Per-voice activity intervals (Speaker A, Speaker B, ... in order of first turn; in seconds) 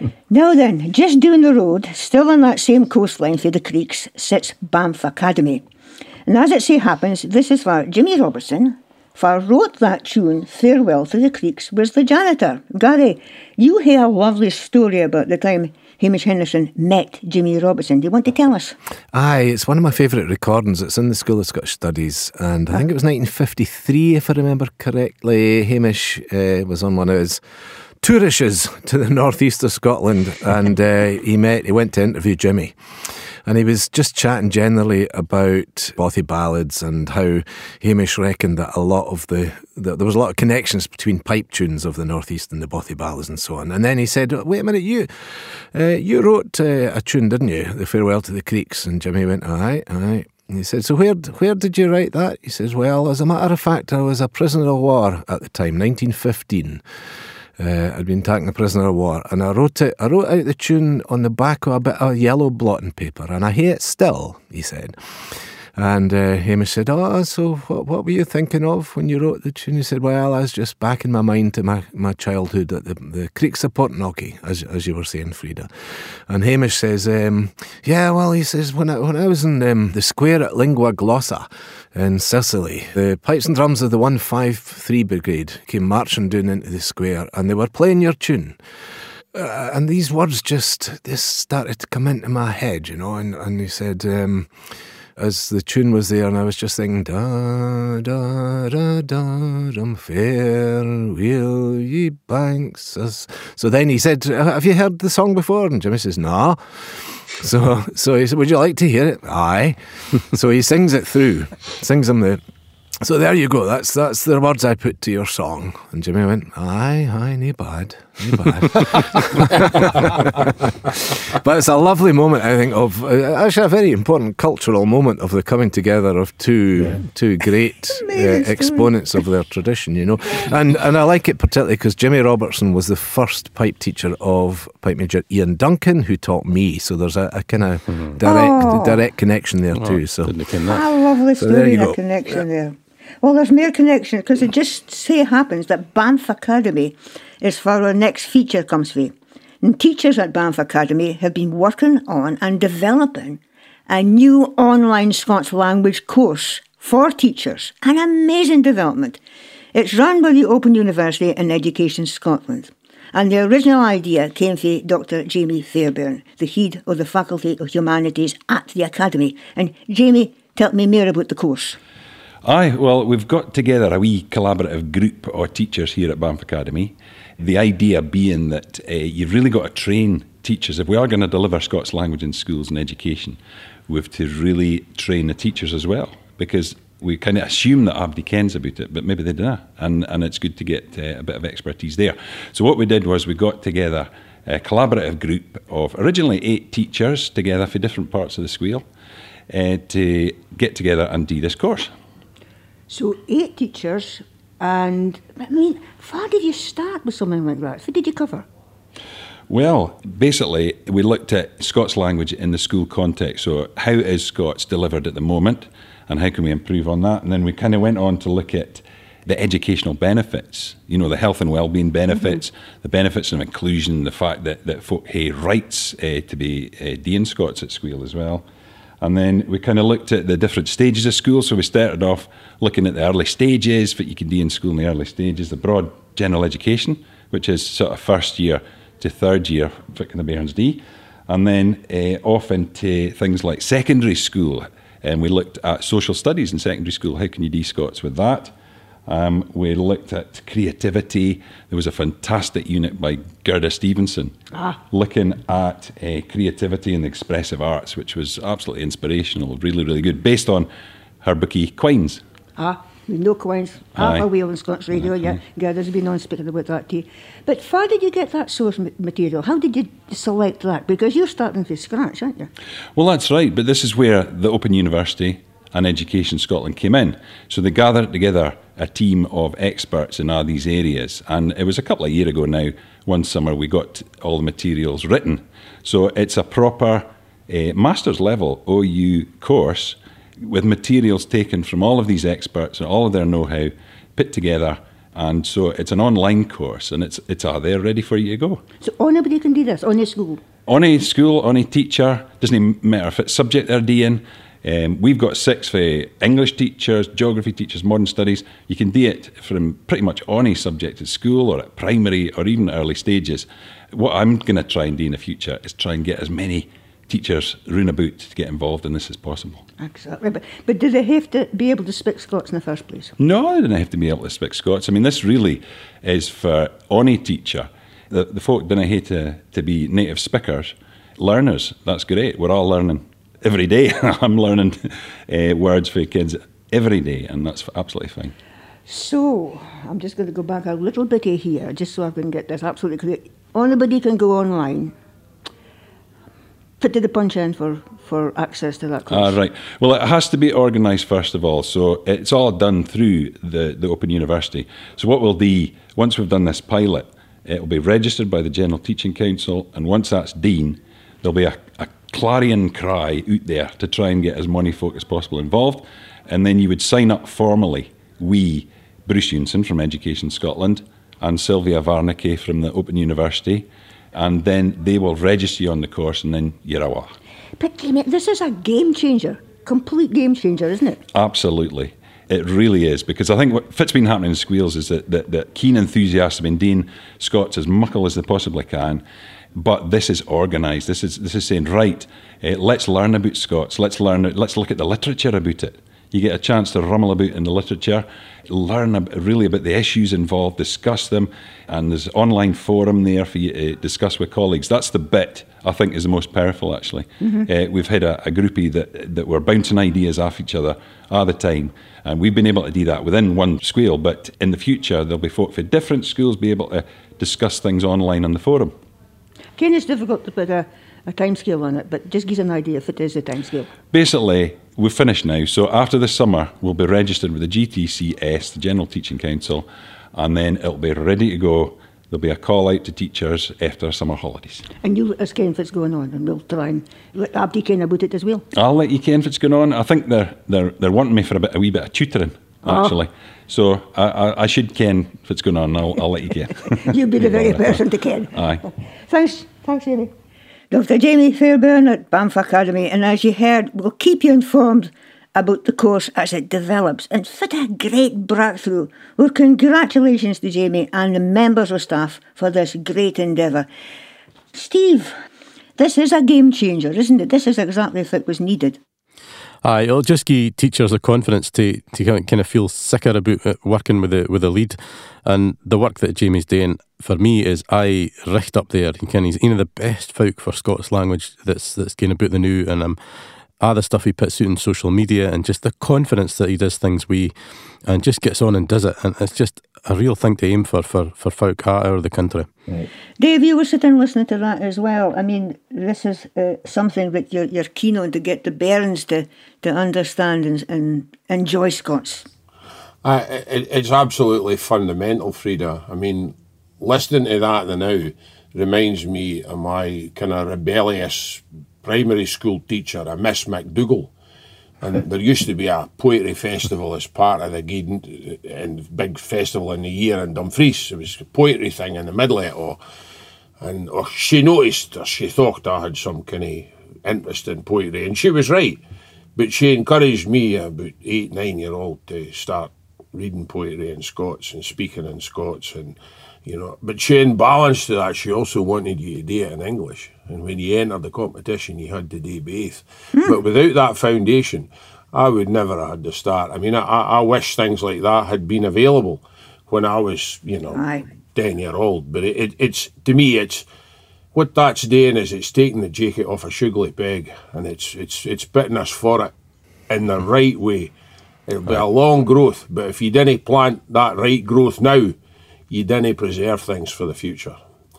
Speaker A: 0.3-5.6, 6.3-18.8, 127.9-128.9, 138.2-139.0, 140.6-159.2, 159.7-171.8, 202.9-208.4, 262.6-272.5, 298.8-300.4, 319.8-323.1, 338.9-344.9, 346.8-349.4, 377.6-381.0, 419.6-423.7, 434.8-438.4, 442.6-442.9, 446.9-448.3, 449.1-450.1, 450.7-463.7, 464.5-465.1, 465.8-468.8, 493.2-502.3, 543.1-543.4, 550.7-551.0
Speaker B: 19.1-27.4, 28.0-32.8, 33.4-56.8, 57.6-75.7, 76.3-88.6, 89.3-94.5, 95.2-112.4, 113.0-140.4, 141.4-142.0
Speaker C: 139.8-140.8, 469.6-483.0, 483.6-492.5
Speaker D: 172.4-198.8, 199.5-201.9, 209.5-228.4, 229.0-248.5, 249.1-254.3, 254.9-260.7, 261.2-262.2, 263.9-264.2, 272.9-298.6, 300.7-319.6, 323.2-338.3, 349.1-377.1, 381.1-389.0, 389.6-418.8, 423.9-434.6, 438.5-447.8, 448.3-448.6
Speaker E: 503.0-514.1, 514.8-522.8, 523.6-528.8, 529.4-553.6, 554.3-559.3, 559.9-560.9, 561.5-565.1, 565.7-567.6